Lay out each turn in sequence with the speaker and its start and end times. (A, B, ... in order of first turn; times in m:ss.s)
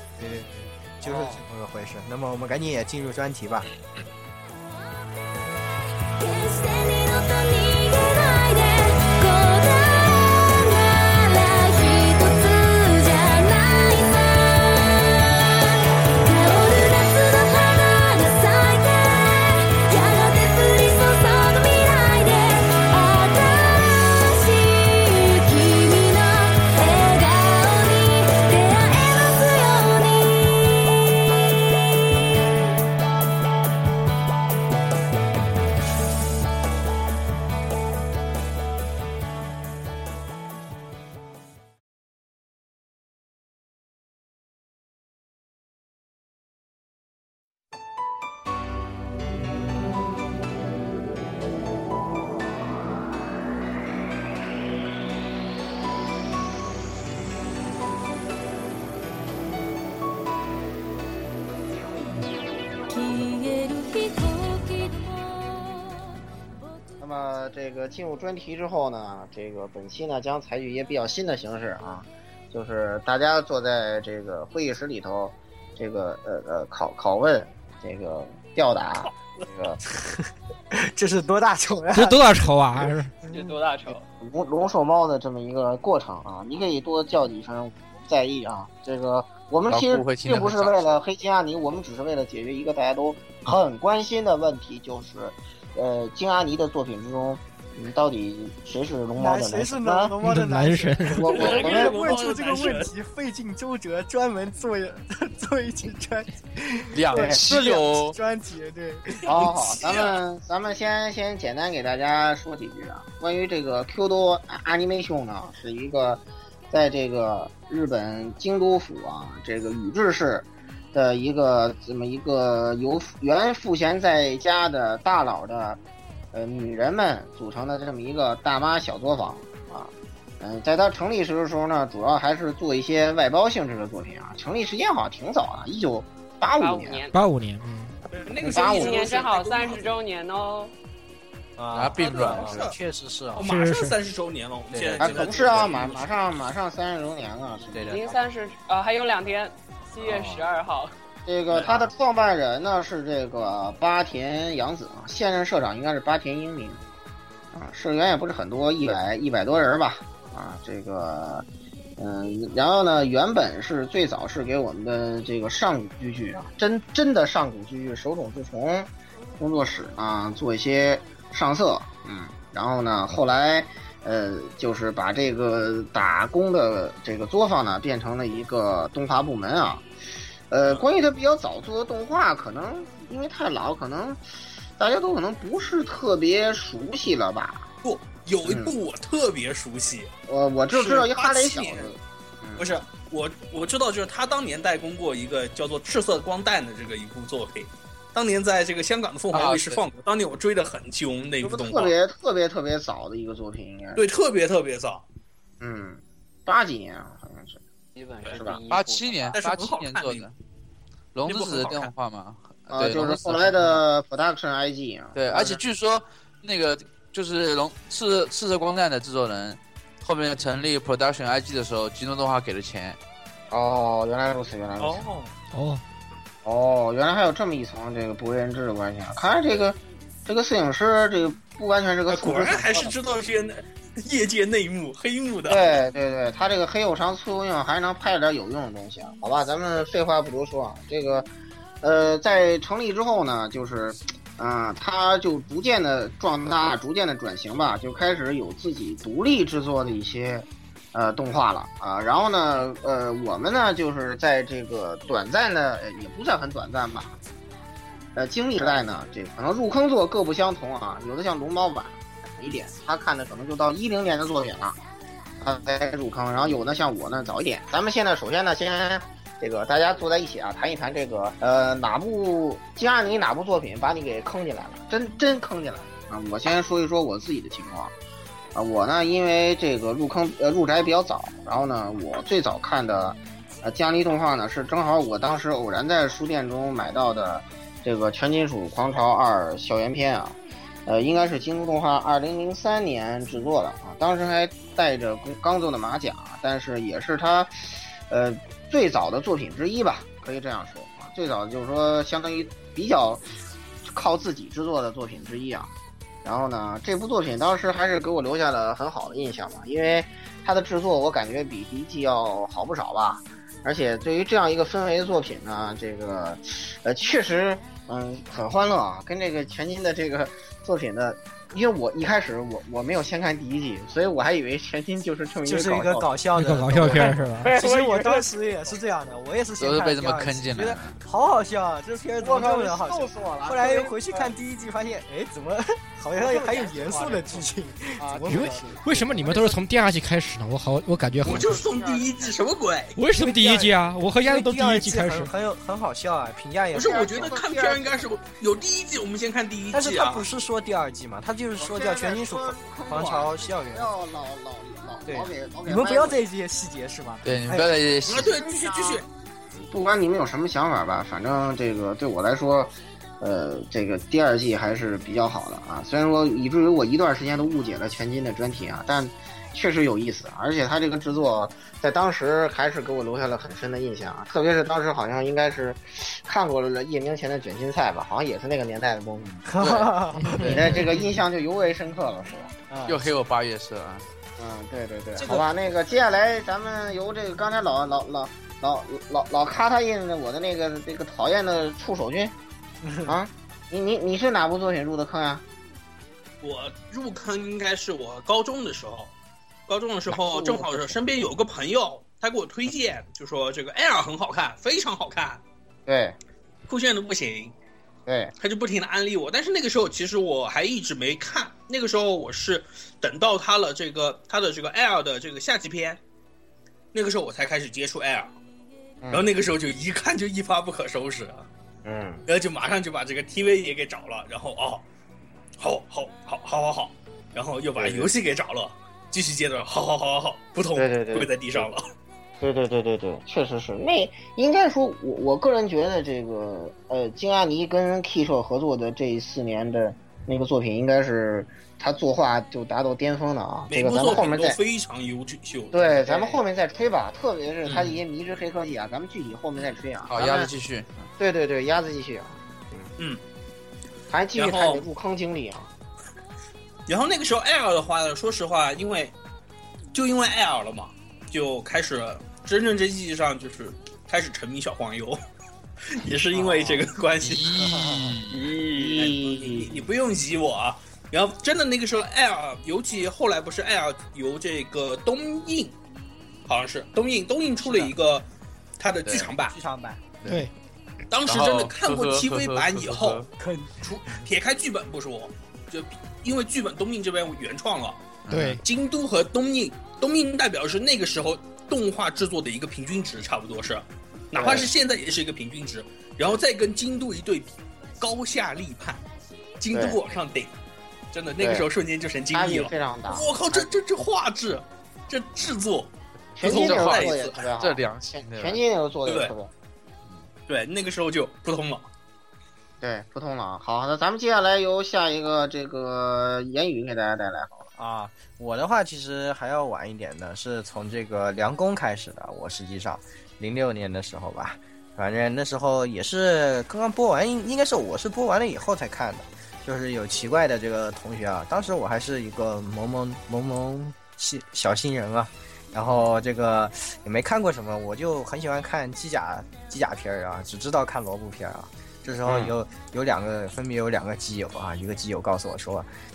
0:00.2-0:03.7 A
0:01.0-0:01.4 B
0:06.2-0:31.0 C
1:02.9-1:05.7 C
1:07.0-1:19.8 B
1:19.0-1:19.5 D
1:19.9-1:23.5 A
1:21.9-1:23.1 E
1:23.3-1:24.0 F
1:24.2-1:40.2 B
1:29.7-1:30.9 G
1:39.2-1:49.4 A
1:40.2-1:41.3 E
1:41.2-1:42.1 B
1:41.3-1:42.9 D
1:46.9-1:48.2 G
1:47.1-1:47.4 B
1:49.2-1:50.2 D
1:49.3-2:05.8 B
2:06.3-2:17.1 B
2:16.6-2:17.2 F
2:17.1-2:18.0 E
2:18.1-2:19.9 D
2:18.4-2:19.0 B
2:18.7-2:20.7 F
2:21.6-2:23.5 A
2:21.7-2:22.7 G
2:22.0-2:22.8 D
2:23.4-2:26.0 D
2:23.4-2:24.0 E
2:24.7-2:25.0 A
2:24.9-2:25.8 G
2:25.0-2:28.2 B
2:27.9-2:30.9 F
2:30.1-2:30.4 A
2:31.3-2:36.8 B
2:31.5-2:31.8 D
2:37.5-2:41.5 B
2:42.0-2:59.9 B
3:00.5-3:04.2 B
3:00.6-3:00.9 D
3:04.8-3:07.6 B
3:07.8-3:10.1 D
3:08.4-3:08.7 B
3:10.3-3:12.7 B
3:10.7-3:12.0 D
3:12.6-3:21.9 D
3:19.3-3:19.8 G
3:21.4-3:24.0 B
3:24.0-3:25.0 D
3:25.6-3:27.6 B
3:28.0-3:29.4 F
3:28.3-3:28.6 B
3:28.7-3:30.3 G
3:29.3-3:30.2 D
3:31.1-3:33.8 G
3:31.3-3:31.9 D
3:32.7-3:35.6 B
3:35.2-3:43.0 G
3:43.5-3:45.1 B
3:44.8-3:45.3 D
3:45.5-3:45.8 E
3:46.4-3:52.9 B
3:52.1-3:55.8 D
3:55.5-4:01.3 B
4:01.8-4:17.2 B
4:18.2-4:24.8 B
4:25.4-4:37.9 B
4:38.6-5:03.2 B
5:03.9-5:05.7 B
5:06.2-5:26.1 B
5:25.4-5:39.5 A
5:26.4-5:27.5 E
5:26.8-5:28.2 B
5:29.6-5:31.0 G
5:32.2-5:34.3 B
5:36.2-5:37.4 B
5:38.0-5:39.5 B
5:38.3-5:41.6 E
5:41.2-5:42.4 B
5:41.2-5:43.0 D
5:43.0-5:45.3 E
5:43.4-5:43.6 A
5:44.2-5:47.3 A
5:46.7-5:50.3 D
5:46.7-5:48.0 B
5:49.7-5:53.9 A
5:51.6-5:56.2 B
5:55.1-5:57.7 A
5:57.2-5:58.4 G
5:58.1-5:59.1 D
5:58.2-5:59.1 B
5:59.6-6:19.5 B
6:19.5-6:20.8 A
6:19.6-6:20.8 G
6:20.5-6:22.5 B
6:22.7-6:23.1 A
6:22.9-6:24.1 G
6:24.4-6:32.3 B
6:25.2-6:25.5 A
6:32.8-6:33.2 A
6:33.0-6:35.4 B
6:36.4-6:39.1 D
6:39.7-6:45.4 D
6:40.1-6:40.9 B
6:45.9-6:46.2 B
6:46.7-6:47.6 D
6:48.1-6:48.3 B
6:48.4-6:56.0 D
6:56.9-6:58.4 D
6:59.1-7:01.5 D
7:01.8-7:02.2 B
7:02.3-7:04.8 D
7:05.6-7:11.8 D
7:07.8-7:08.1 B
7:10.8-7:11.7 B
7:12.4-7:24.6 B
7:23.7-7:26.4 D
7:25.7-7:30.5 B
7:27.6-7:28.0 D
7:30.1-7:31.0 G
7:31.2-7:32.9 B
7:34.1-7:35.7 B
7:34.4-7:34.8 D
7:36.9-7:39.2 D
7:39.9-7:45.2 D
7:45.9-7:47.6 D
7:46.5-7:46.8 A
7:47.2-7:48.4 G
7:47.4-7:48.2 A
7:48.3-7:55.8 D
7:48.3-7:49.8 B
7:56.5-7:58.3 D
7:57.6-7:57.9 A
7:58.8-7:59.6 D
7:59.0-7:59.3 G
7:59.4-8:00.0 A
8:00.2-8:00.5 G
8:00.3-8:00.5 E
8:01.1-8:03.2 D
8:01.3-8:03.3 G
8:03.4-8:04.3 A
8:03.8-8:08.0 D
8:08.2-8:08.6 G
8:08.3-8:08.6 E
8:08.6-8:19.0 D
8:14.4-8:14.7 B
8:19.6-8:20.5 D
8:19.7-8:20.0 B
8:21.1-8:27.5 D
8:21.4-8:21.7 B
8:22.3-8:23.7 B
8:26.4-8:28.6 G
8:26.4-8:29.5 B
8:29.0-8:29.3 D
8:30.5-8:31.9 D
8:32.8-8:37.7 B
8:37.8-9:05.9 A